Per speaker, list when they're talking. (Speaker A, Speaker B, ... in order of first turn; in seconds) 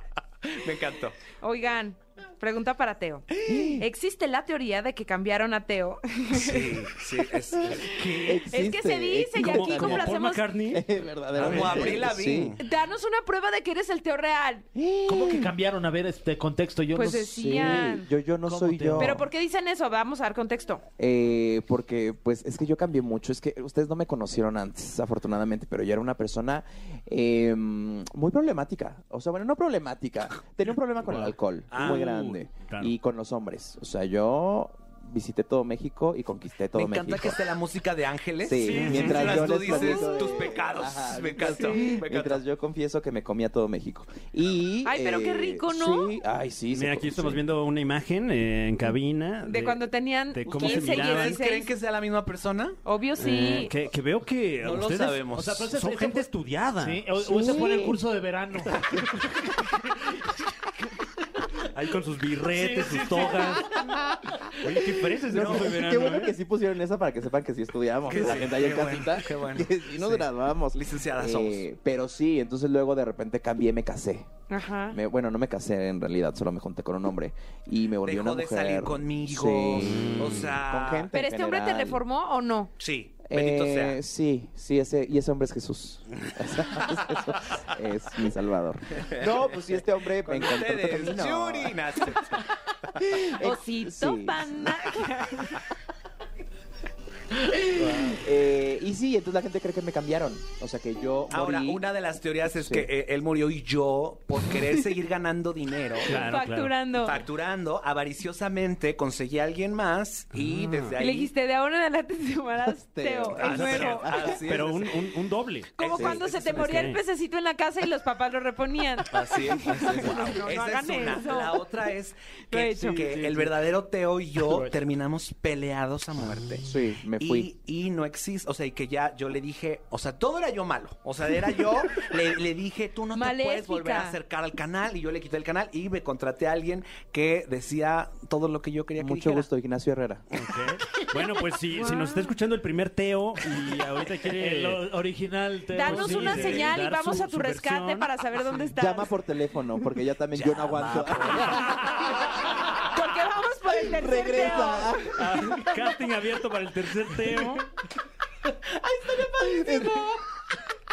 Speaker A: 0.4-1.3, 6.3-8.5, 11.4-12.6, 31.7-32.1, 36.8-42.4, 50.5-52.8, 54.6-55.7, 68.1-71.6, 78.0-81.1, 82.8-84.0, 90.2-92.5, 101.3-106.4, 107.0-111.3, 113.4-115.2, 115.8-117.0, 119.1-126.6, 127.2-139.5, 150.3-151.7, 158.9-159.8
Speaker B: 1.3-6.8, 8.5-10.6, 12.6-14.7, 16.9-18.1, 19.0-20.8, 39.7-40.2, 44.9-46.1, 49.5-51.7, 52.9-53.7, 74.5-75.0, 81.1-82.7, 93.4-95.6, 106.2-107.2, 111.0-114.3, 115.8-121.6, 122.5-123.0, 133.1-134.2, 141.8-142.3, 145.7-149.2, 152.8-155.7, 159.6-160.1
Speaker C: 3.5-3.9, 7.6-12.6, 14.8-15.5, 17.3-19.2, 21.0-37.4, 38.4-47.5, 57.2-58.0, 64.6-74.3, 74.9-82.0, 83.2-91.8, 93.0-94.9, 97.9-101.9, 102.5-102.9, 112.7-113.4, 114.0-114.4, 126.7-127.5, 138.9-140.2, 148.8-152.3, 153.7-155.2, 159.1-160.1
Speaker D: 9.4-12.0, 31.0-32.9, 38.6-39.7, 46.7-51.4, 53.2-57.1, 61.6-63.7, 64.5-66.4, 79.8-80.6, 106.0-106.8, 110.3-111.0, 113.4-116.0, 116.5-117.0, 124.4-124.8, 140.3-144.8, 145.8-148.7, 151.0-152.2, 155.1-157.7
Speaker E: 15.1-17.7, 18.5-19.3, 55.3-56.3, 56.8-58.8, 62.5-63.6, 122.9-123.5, 144.3-146.7